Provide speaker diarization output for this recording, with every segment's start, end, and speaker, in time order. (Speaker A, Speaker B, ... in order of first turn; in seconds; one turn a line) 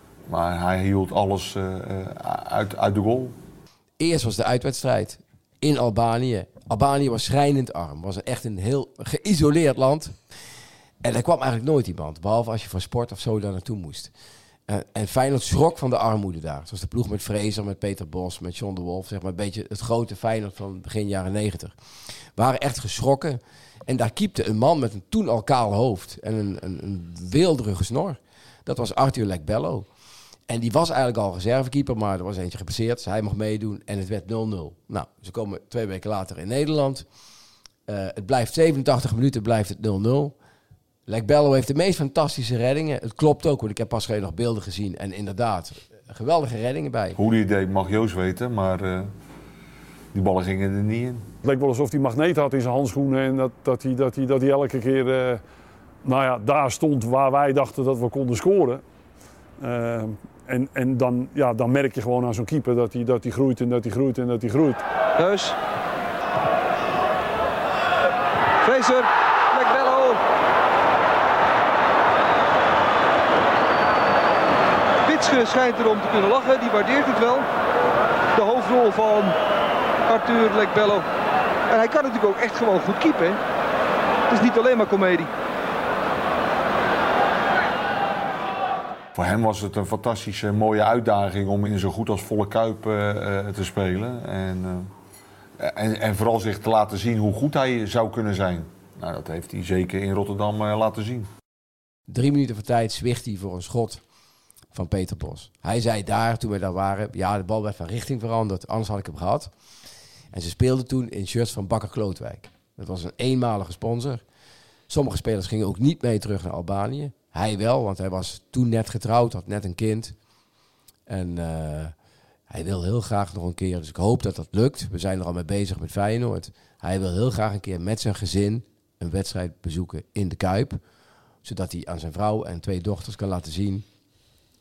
Speaker A: 0.3-3.3
Speaker B: 4.0-10.2
Speaker B: 11.0-14.1
Speaker B: 14.7-21.8
Speaker B: 22.4-29.9
Speaker B: 30.5-37.0
Speaker B: 37.9-40.3
Speaker B: 41.1-47.2
Speaker A: 47.2-49.1
Speaker A: 50.1-51.3
Speaker C: 51.4-55.4
Speaker C: 56.0-58.8
Speaker C: 59.6-64.8
Speaker D: 65.2-65.5
Speaker D: 68.6-70.2
Speaker D: 75.0-77.5
Speaker D: 78.3-79.3
Speaker D: 80.1-81.0
Speaker D: 81.7-83.4
Speaker D: 84.3-85.3
Speaker A: 89.1-94.9
Speaker A: 95.6-101.3
Speaker B: 102.1-104.0
Speaker B: 104.7-109.5
Speaker B: 110.3-114.2
Speaker B: 114.9-120.1
Speaker B: 121.1-121.9
Speaker B: 122.5-130.8
Speaker B: 131.4-133.8